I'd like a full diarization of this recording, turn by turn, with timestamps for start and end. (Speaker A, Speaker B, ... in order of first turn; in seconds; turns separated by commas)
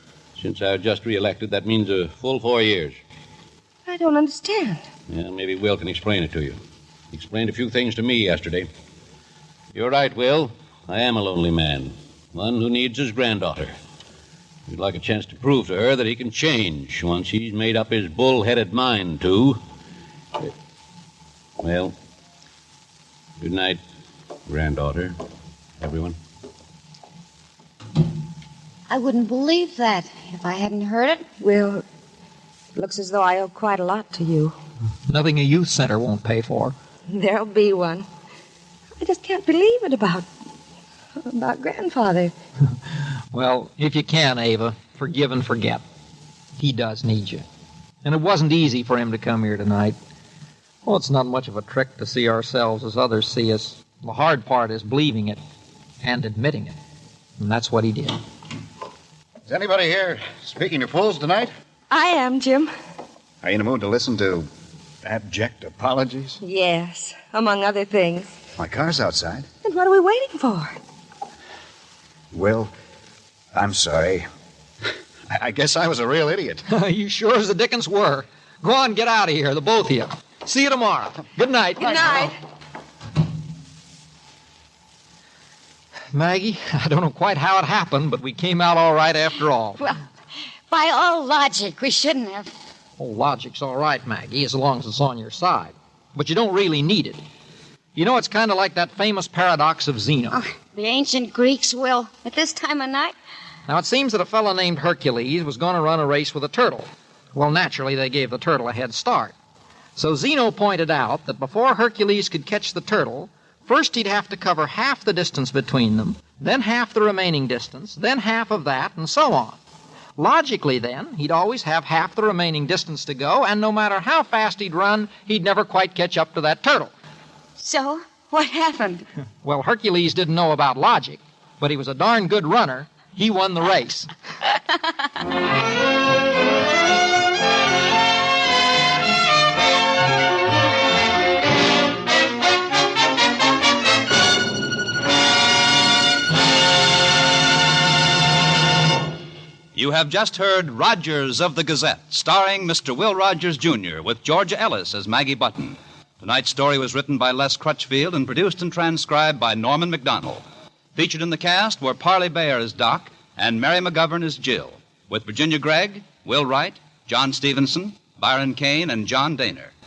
Speaker A: 0.4-3.0, Speaker B: 3.9-4.8, Speaker A: 5.1-6.6, Speaker A: 7.1-8.7, Speaker A: 9.7-13.7, Speaker A: 14.7-19.6, Speaker A: 21.6-21.9, Speaker A: 23.4-23.8, Speaker A: 24.5-25.1, Speaker A: 25.8-26.2, Speaker C: 28.9-31.3, Speaker B: 31.4-31.8, Speaker B: 32.7-34.5, Speaker D: 35.1-36.7, Speaker B: 37.1-38.1, Speaker B: 39.0-40.2, Speaker B: 41.2-42.3, Speaker D: 43.3-45.8, Speaker D: 46.6-47.4, Speaker D: 48.0-50.0, Speaker D: 50.8-55.4, Speaker D: 56.0-56.8, Speaker D: 57.4-58.2, Speaker E: 59.5-61.5, Speaker B: 61.9-62.7, Speaker E: 63.4-64.5, Speaker E: 65.0-66.4, Speaker B: 66.4-68.3, Speaker E: 68.6-69.5, Speaker B: 69.6-70.8, Speaker E: 72.3-72.7, Speaker E: 73.5-74.2, Speaker E: 75.3-76.6, Speaker D: 76.7-82.3, Speaker D: 86.1-89.8, Speaker C: 90.7-92.5, Speaker D: 93.0-97.2, Speaker D: 97.9-100.4, Speaker C: 100.3-103.1, Speaker D: 103.7-109.3, Speaker D: 110.0-119.6, Speaker D: 120.2-126.9, Speaker C: 127.6-129.0, Speaker D: 129.4-134.1, Speaker F: 149.7-160.4, Speaker F: 160.9-169.7